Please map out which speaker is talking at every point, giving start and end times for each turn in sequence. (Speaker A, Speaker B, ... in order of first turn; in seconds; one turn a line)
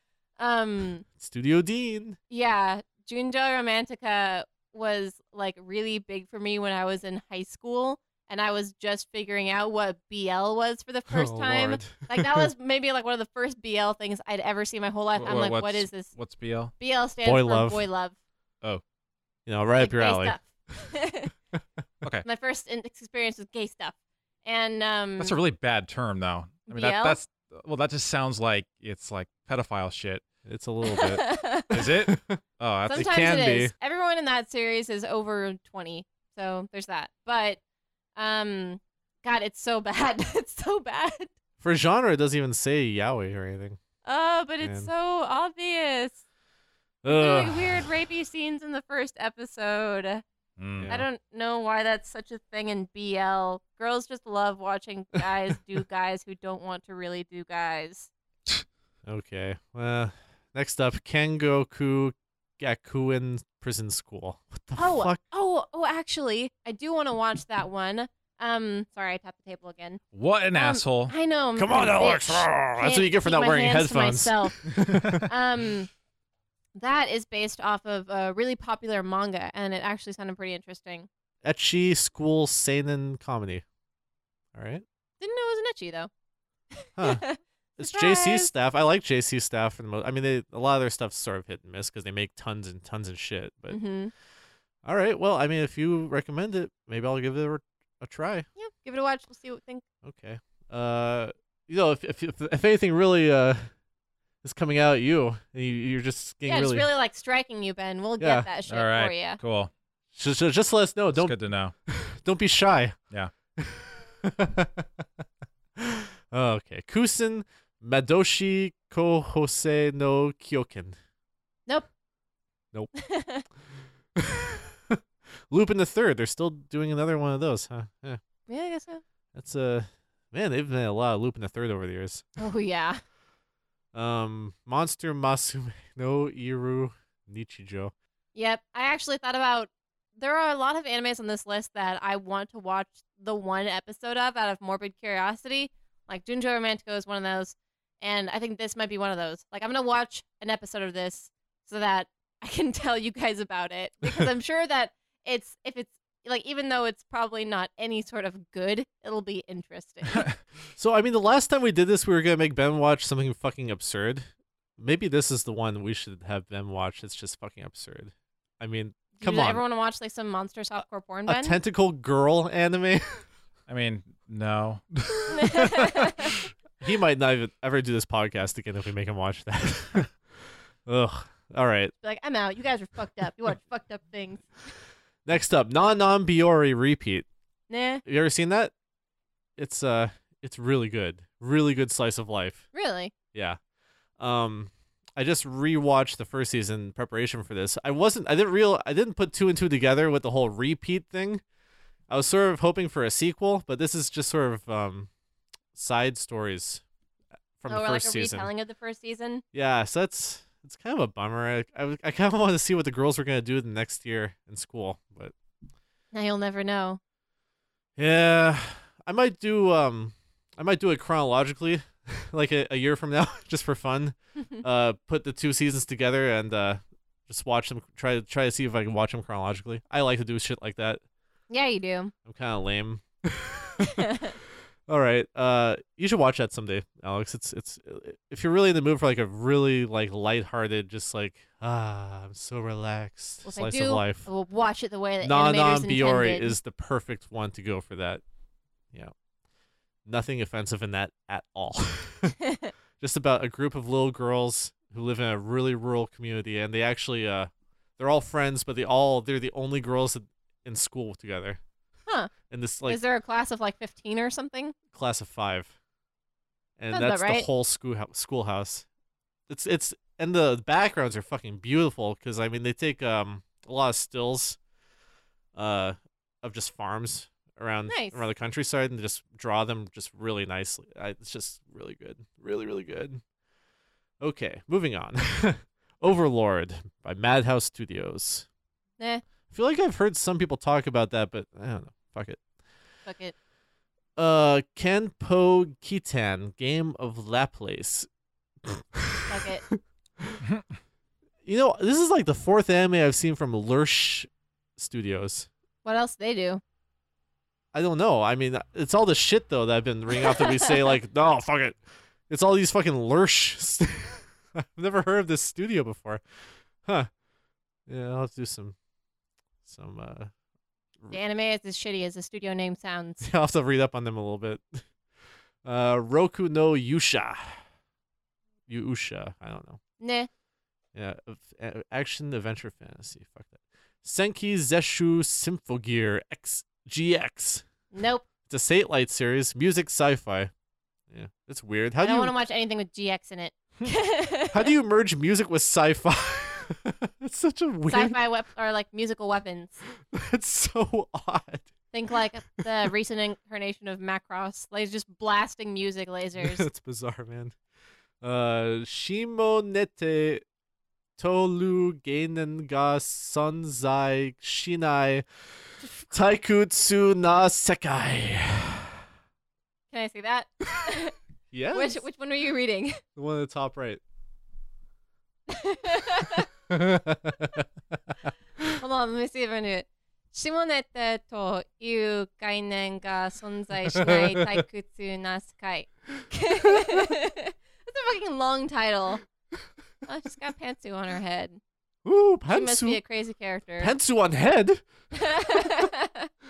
Speaker A: 0.4-1.0
Speaker B: 1.2-2.2
Speaker A: 2.3-16.1
Speaker B: 11.1-12.5
Speaker C: 15.2-16.7
Speaker A: 16.8-18.1
Speaker B: 17.2-17.8
Speaker B: 19.4-20.4
Speaker A: 19.8-21.3
Speaker A: 22.2-25.4
Speaker C: 25.2-30.2
Speaker A: 26.7-27.2
Speaker B: 30.4-32.4
Speaker A: 30.9-31.7
Speaker C: 31.7-33.4
Speaker A: 32.9-37.6
Speaker B: 32.9-33.7
Speaker A: 38.1-41.3
Speaker B: 41.6-43.8
Speaker A: 44.0-46.2
Speaker B: 44.6-44.9
Speaker B: 47.0-47.9
Speaker A: 47.1-50.2
Speaker C: 50.6-50.9
Speaker B: 50.8-51.1
Speaker A: 50.9-58.1
Speaker B: 59.0-65.2
Speaker A: 64.8-70.0
Speaker C: 70.1-71.1
Speaker A: 70.5-74.6
Speaker B: 71.5-75.3
Speaker A: 75.3-75.9
Speaker A: 76.8-81.1
Speaker B: 81.4-83.6
Speaker B: 84.5-84.8
Speaker A: 85.2-86.1
Speaker A: 86.7-88.5
Speaker B: 87.0-87.2
Speaker B: 87.8-93.8
Speaker A: 93.7-94.1
Speaker B: 94.8-98.5
Speaker A: 98.6-99.8
Speaker B: 100.0-103.7
Speaker B: 104.4-106.9
Speaker A: 106.5-109.4
Speaker B: 108.2-108.5
Speaker C: 108.7-109.7
Speaker B: 110.1-111.4
Speaker C: 111.1-111.7
Speaker B: 111.9-113.0
Speaker B: 113.6-115.0
Speaker B: 115.8-121.0
Speaker A: 123.0-123.4
Speaker B: 124.2-128.2
Speaker A: 128.5-129.0
Speaker B: 129.3-132.2
Speaker A: 132.4-133.0
Speaker B: 133.9-137.9
Speaker A: 138.3-160.2
Speaker B: 160.8-169.6
Speaker A: 169.2-171.6
Speaker B: 171.3-173.2
Speaker C: 173.7-175.9
Speaker A: 175.3-176.3
Speaker B: 176.8-181.9
Speaker A: 182.0-184.5
Speaker B: 185.2-187.3
Speaker A: 187.7-188.0
Speaker B: 188.0-188.7
Speaker B: 189.6-192.7
Speaker A: 192.7-193.1
Speaker B: 193.3-193.6
Speaker B: 194.2-201.4
Speaker B: 202.1-205.1
Speaker B: 205.7-206.8
Speaker B: 207.6-208.5
Speaker A: 207.7-209.4
Speaker B: 209.5-215.3
Speaker A: 216.1-217.0
Speaker B: 218.0-231.0
Speaker A: 231.5-232.1
Speaker B: 232.2-234.0
Speaker A: 233.8-234.3
Speaker B: 234.9-244.3
Speaker A: 243.4-246.6
Speaker B: 245.2-248.2
Speaker B: 250.1-252.3
Speaker A: 252.4-252.7
Speaker B: 253.0-261.6
Speaker B: 262.5-263.0
Speaker A: 262.9-264.7
Speaker B: 264.9-265.7
Speaker B: 266.8-268.9
Speaker A: 266.9-267.5
Speaker B: 269.5-274.6
Speaker B: 275.5-283.2
Speaker A: 277.9-278.2
Speaker B: 284.2-288.4
Speaker B: 289.5-292.4
Speaker A: 293.1-293.3
Speaker B: 294.2-298.1
Speaker B: 298.6-299.4
Speaker A: 299.3-299.6
Speaker B: 301.4-305.5
Speaker A: 305.8-306.6
Speaker B: 307.7-317.1
Speaker A: 310.1-310.7
Speaker B: 317.9-318.8
Speaker B: 319.6-320.3
Speaker A: 321.1-323.3
Speaker B: 323.2-324.8
Speaker B: 325.6-327.6
Speaker B: 328.7-329.8
Speaker A: 330.0-330.3
Speaker B: 330.9-337.6
Speaker A: 337.9-338.2
Speaker B: 338.5-340.5
Speaker B: 341.1-342.3
Speaker A: 342.0-344.7
Speaker B: 344.5-348.2
Speaker A: 347.9-349.8
Speaker B: 350.1-351.7
Speaker A: 351.9-356.6
Speaker B: 356.4-357.6
Speaker B: 358.2-360.4
Speaker B: 361.2-365.2
Speaker B: 366.1-369.0
Speaker A: 369.9-371.1
Speaker B: 371.5-372.0
Speaker A: 371.7-373.0
Speaker B: 373.1-374.0
Speaker A: 375.5-376.5
Speaker B: 376.7-377.7
Speaker A: 378.8-389.2
Speaker B: 383.9-384.6
Speaker B: 386.7-387.0
Speaker A: 390.1-391.6
Speaker B: 392.0-393.0
Speaker A: 392.5-393.9
Speaker B: 393.8-394.8
Speaker A: 395.1-396.3